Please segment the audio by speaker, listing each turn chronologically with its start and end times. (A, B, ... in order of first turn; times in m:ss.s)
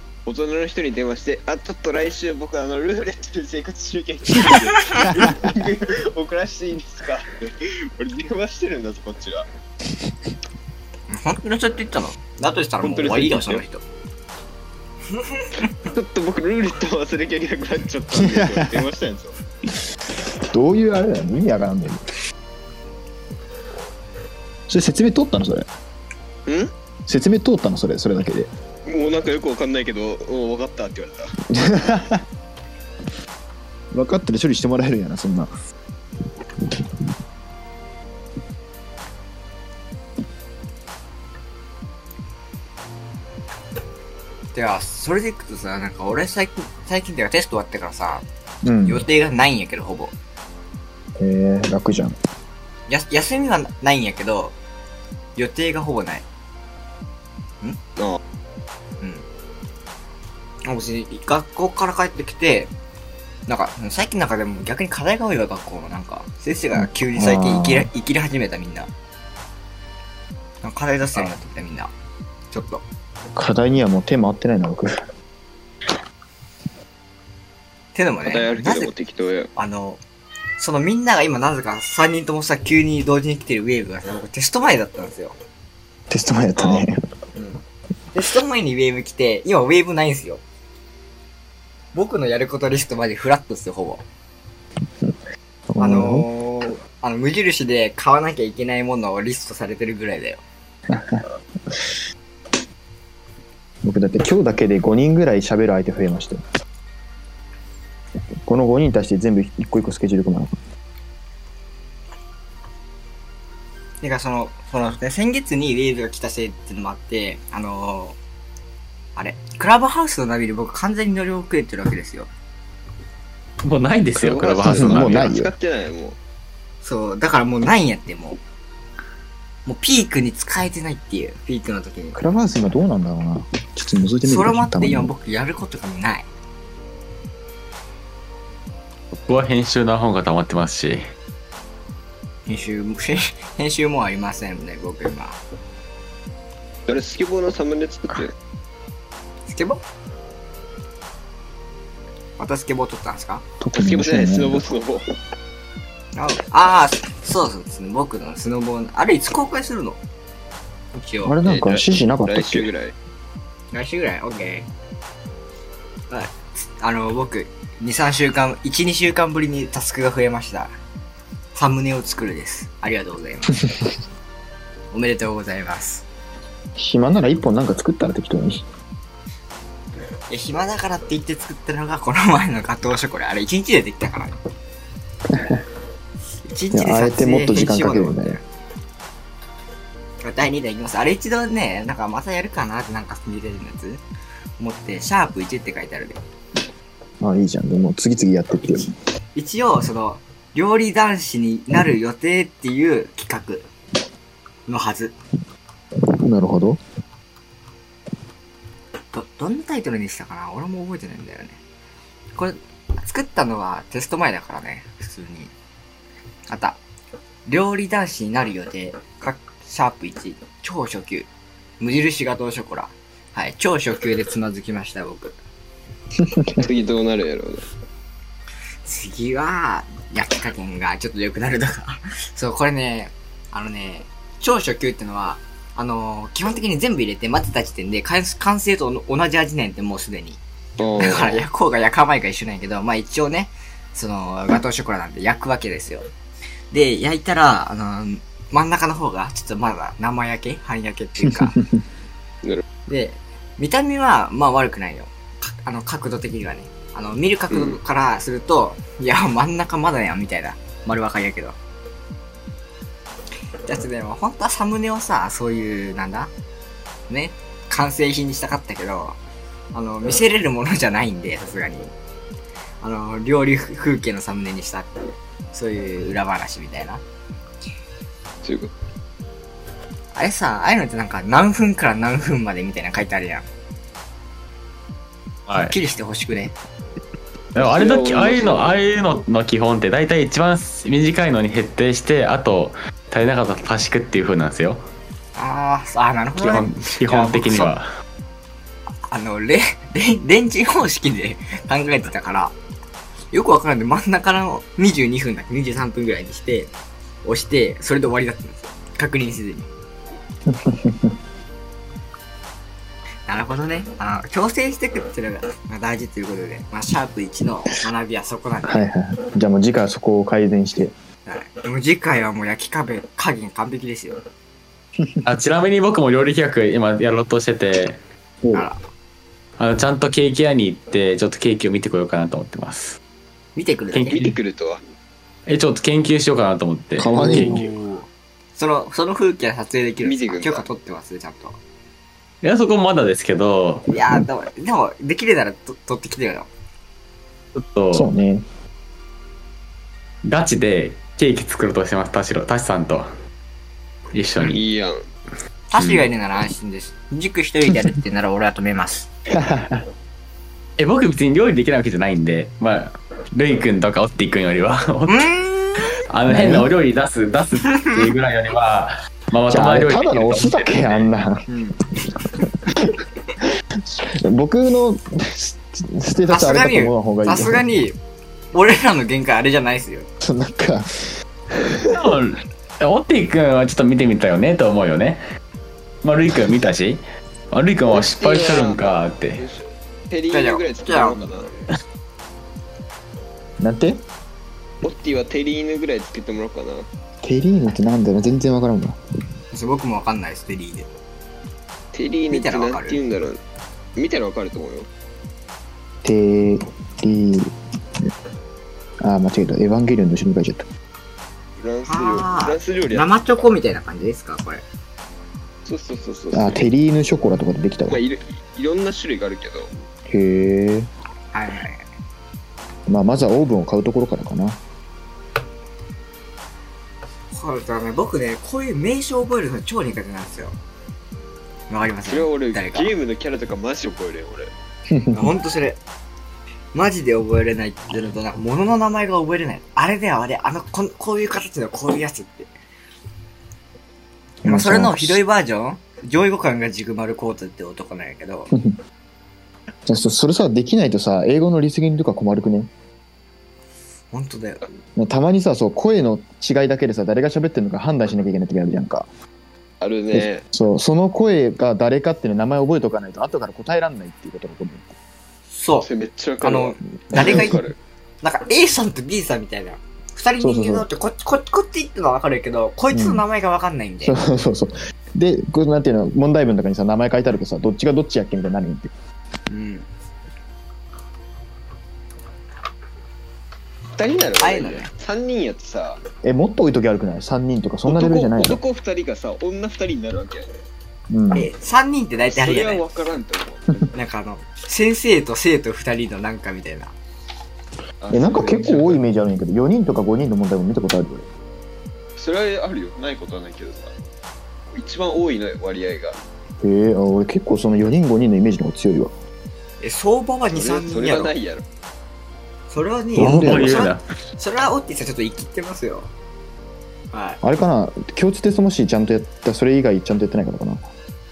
0:00.2-0:09.4 A
0:11.1-0:13.8 B
0:12.8-0:13.6 A
0:15.2-0:15.5 B
0:15.7-0:19.3 A
0:18.2-0:18.8 C
0:20.5-0:22.0 C
0:24.7-0:25.7 C
0:26.4-0:26.7 A
0:27.1-0:28.5 C
0:28.8-0:31.3 A
0:31.5-0:32.2 C
0:33.9-0:35.5 C
0:44.5-0:48.2 B
0:48.6-0:49.0 C
0:48.8-0:50.1 B
0:51.2-0:52.2 C
0:52.9-0:54.5 B
0:55.4-0:56.2 B
1:00.6-1:02.7 B
1:03.5-1:08.9 B
1:06.8-1:07.9 C
1:10.6-1:11.9 B
1:12.5-1:12.8 B
1:13.3-1:14.9 C
1:17.9-1:18.9 B
1:18.2-1:19.5 A
1:19.6-1:20.0 B
1:20.6-1:25.4 B
1:26.1-1:27.0 C
1:26.6-1:26.8 A
1:27.3-1:27.6 B
1:28.1-1:30.4 B
1:31.9-1:34.0 B
1:35.7-1:36.2 C
1:35.8-1:40.4 B
1:40.9-1:42.0 C
1:43.8-1:46.4 C
1:48.4-1:50.6 C
1:54.0-1:58.2 B
1:59.2-2:02.3 B
2:03.6-2:05.3 D
2:04.2-2:06.2 A
2:04.6-2:05.5 C
2:06.8-2:08.4 B
2:09.6-2:12.2 B
2:12.1-2:15.1 C
2:14.2-2:16.3 B
2:19.1-2:21.0 D
2:22.5-2:25.4 B
2:26.8-2:28.3 A
2:29.5-2:29.8 B
2:32.4-2:33.4 B
2:33.6-2:34.6 C
2:33.7-2:35.0 A
2:36.2-2:40.0 B
2:40.9-2:41.4 B
2:41.2-2:42.7 C
2:41.4-2:42.9 A
2:43.7-2:44.7 B
2:46.1-2:50.7 B
2:51.5-2:53.7 B
2:54.9-2:56.0 B
2:56.8-2:58.6 C
3:00.3-3:04.4 B
3:05.3-3:05.6 C
3:06.4-3:08.4 B
3:06.7-3:08.4 C
3:10.2-3:14.0 B
3:14.6-3:16.2 B
3:17.2-3:18.9 C
3:19.3-3:23.7 B
3:24.7-3:25.1 B
3:26.2-3:26.8 C
3:29.1-3:31.6 B
3:32.4-3:35.5 B
3:36.5-3:36.8 B
3:37.4-3:41.3 B
3:41.8-3:45.4 B
3:46.3-3:46.6 C
3:46.5-3:47.6 A
3:48.8-4:00.4 B
4:00.8-4:01.4 A
4:01.0-4:06.1 B
4:06.7-4:11.6 B
4:11.2-4:11.8 C
4:12.9-4:21.6 B
4:17.5-4:17.8 A
4:23.6-4:26.3 B
4:27.1-4:29.2 B
4:29.7-4:31.9 B
4:32.8-4:37.0 B
4:38.4-4:38.7 A
4:40.1-4:43.5 B
4:45.5-4:45.8 D
4:45.7-4:46.5 B
4:47.5-4:54.8 D
4:47.6-4:48.9 A
4:55.4-4:57.7 B
4:56.4-4:57.8 D
4:59.1-5:02.5 B
5:03.3-5:06.7 B
5:07.2-5:09.7 B
5:10.5-5:11.2 C
5:13.3-5:18.8 B
5:18.6-5:20.9 C
5:21.2-5:24.2 B
5:25.2-5:28.0 D
5:28.4-5:28.7 C
5:28.5-5:28.8 B
5:29.6-5:33.0 D
5:33.6-5:34.2 B
5:33.9-5:34.3 D
5:34.1-5:34.8 A
5:35.5-5:37.7 D
5:37.0-5:37.7 C
5:37.1-5:41.6 B
5:40.0-5:40.6 A
5:42.4-5:43.9 D
5:43.9-5:46.5 B
5:47.5-5:48.1 D
5:47.9-5:48.4 C
5:50.2-5:53.1 D
5:54.1-5:54.6 D
5:54.4-5:55.0 A
5:55.7-5:59.1 B
5:55.8-5:56.1 D
5:59.3-5:59.8 C
6:00.8-6:05.3 D
6:05.1-6:06.0 B
6:06.0-6:11.1 D
6:06.3-6:06.7 C
6:09.5-6:12.9 C
6:13.9-6:17.6 C
6:16.3-6:18.0 B
6:18.5-6:20.1 B
6:20.2-6:22.0 C
6:21.8-6:25.2 D
6:26.0-6:27.0 D
6:27.5-6:29.4 D
6:27.9-6:31.5 A
6:30.3-6:31.3 B
6:33.6-6:34.0 C
6:34.8-6:36.9 A
6:37.2-6:39.0 C
6:39.5-6:40.9 B
6:41.9-6:43.4 A
6:42.3-6:43.0 B
6:44.0-6:44.9 A
6:46.0-6:47.5 C
6:49.0-6:50.6 C
6:51.6-6:53.4 A
6:51.9-6:54.6 B
6:55.6-6:56.6 A
6:56.3-6:58.0 C
6:57.9-6:59.7 A
7:00.1-7:00.9 C
7:01.3-7:01.8 B
7:02.9-7:04.6 C
7:07.3-7:10.6 B
7:11.7-7:13.0 B
7:12.0-7:14.5 A
7:14.9-7:15.3 C
7:15.1-7:15.8 B
7:16.7-7:22.5 B
7:24.4-7:25.2 C
7:24.4-7:28.5 B
7:29.9-7:32.7 C
7:34.1-7:34.6 B
7:35.0-7:39.1 C
7:39.8-7:40.4 A
7:40.1-7:44.9 C
7:45.5-7:45.9 B
7:45.8-7:47.8 A
7:46.4-7:47.6 B
7:47.1-7:47.6 C
7:48.2-7:54.2 B
7:50.4-7:50.9 C
7:52.9-7:53.2 C
7:54.0-7:58.9 C
7:59.5-7:59.9 B
8:04.0-8:06.0 A
8:04.4-8:04.9 B
8:06.2-8:08.6 C
8:07.9-8:10.5 A
8:11.1-8:11.5 C
8:11.3-8:12.8 B
8:12.3-8:13.9 A
8:13.9-8:16.9 B
8:18.0-8:19.0 A
8:18.1-8:21.3 C
8:22.2-8:23.9 A
8:24.7-8:26.2 A
8:26.6-8:29.1 C
8:29.8-8:31.3 B
8:30.5-8:31.6 A
8:32.7-8:36.1 B
8:33.2-8:33.9 C
8:33.2-8:34.0 D
8:37.1-8:37.4 B
8:37.4-8:40.8 C